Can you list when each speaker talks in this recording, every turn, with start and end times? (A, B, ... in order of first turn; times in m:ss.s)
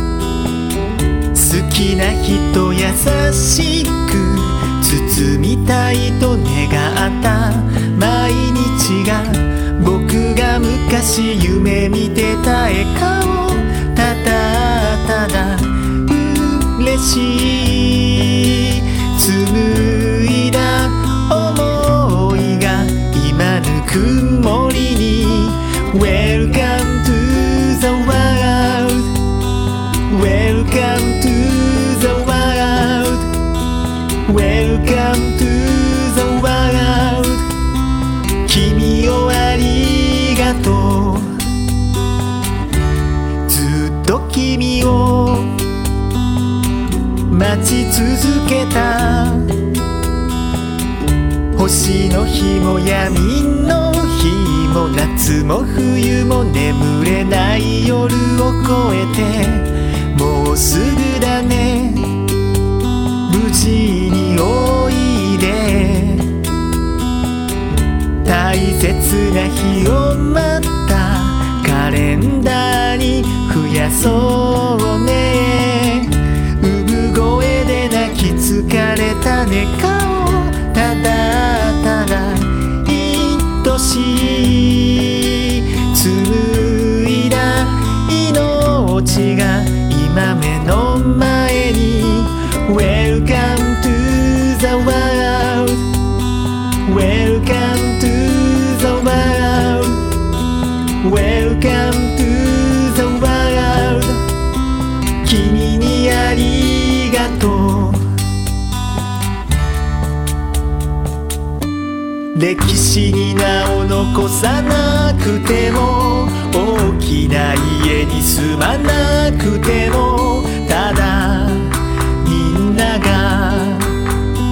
0:01.3-0:29.1 A
0:30.1-0:33.3 A
0:34.3-0:37.4 A
0:38.5-0:41.3 A
0:43.5-0:45.5 A
0:47.3-0:49.5 A
0:51.6-1:02.1 A
1:03.3-1:06.3 A
1:08.2-1:35.8 A
1:36.9-1:40.0 A
1:41.0-1:44.2 A
1:45.2-1:48.0 A
1:52.3-2:03.9 A